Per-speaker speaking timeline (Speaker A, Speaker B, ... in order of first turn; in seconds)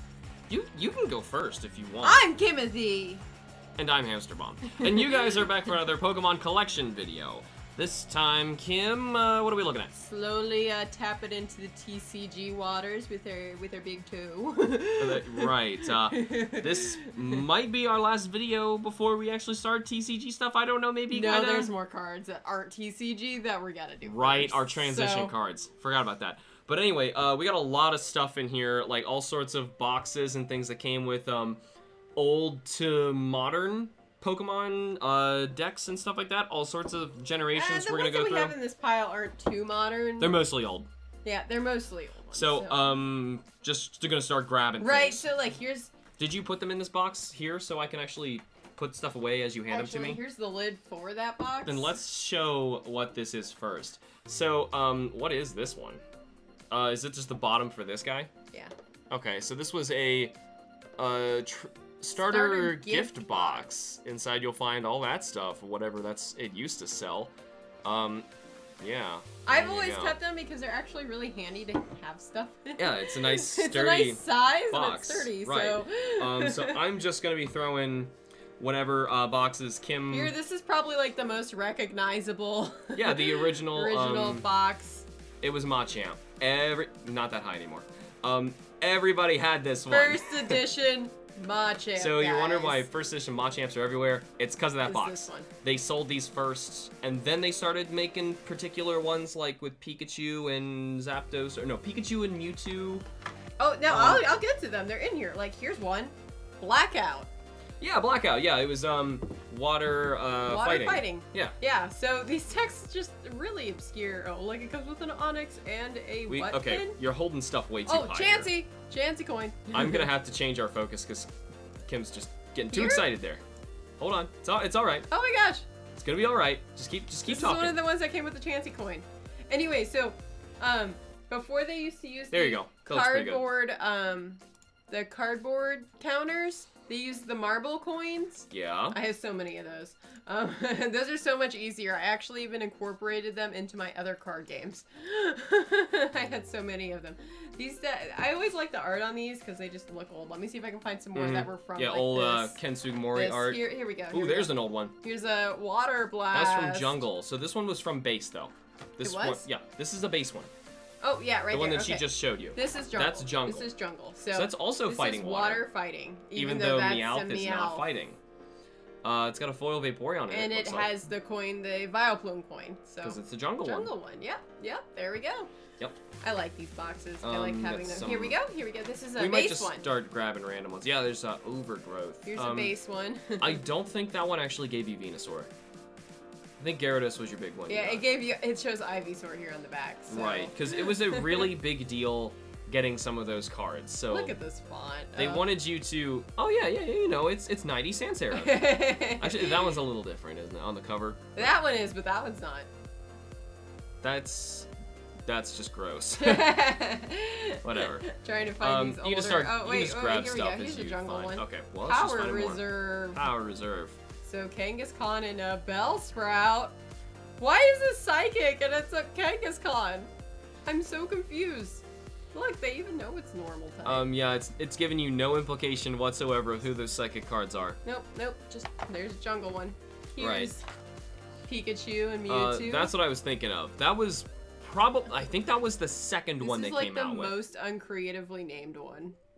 Speaker A: 0.5-2.2, 3.8-9.9, 15.0-21.7, 24.0-31.6, 32.1-38.5, 40.2-40.9, 42.3-45.3, 46.2-50.2, 51.6-56.0, 56.7-58.3, 59.1-60.3, 61.0-67.3, 67.8-68.2, 68.8-70.2, 72.8-80.3, 82.9-84.5, 85.4-90.6, 92.0-103.0, 103.9-104.3, 107.8-111.5, 116.3-118.5, 119.7-121.3, 121.9-123.4, 124.0-125.1, 125.9-127.8, 132.3-133.4, 138.5-139.0, 151.1-154.9, 156.3-160.5, 161.5-163.7, 164.3-165.7, 166.3-168.2, 169.0-171.0, 173.0-173.9, 177.2-178.4, 179.2-182.7, 183.4-185.5, 186.6-188.0, 190.1-194.3, 195.2-201.5, 204.0-204.7, 205.3-206.6, 207.6-208.1, 208.6-214.0, 223.8-227.8, 230.2-230.5, 232.3-237.3
Speaker B: 2.0-3.2, 4.8-5.4, 9.9-17.4, 21.1-25.3, 37.5-40.4, 41.2-42.8, 44.8-45.9, 49.7-52.0, 62.2-63.7, 69.5-76.8, 80.1-85.0, 89.9-92.8, 94.8-95.5, 103.6-107.3, 110.5-117.0, 117.9-120.1, 122.7-123.0, 125.1-125.7, 127.2-152.6, 153.1-157.0, 159.0-159.4, 161.0-167.9, 170.3-175.5, 176.2-179.9, 182.2-183.6, 187.7-191.5, 194.1-195.4, 198.3-199.8, 201.3-202.7, 206.2-213.3, 214.2-216.7, 217.4-220.1, 220.7-224.1, 227.8-230.6, 231.5-232.9, 236.4-239.2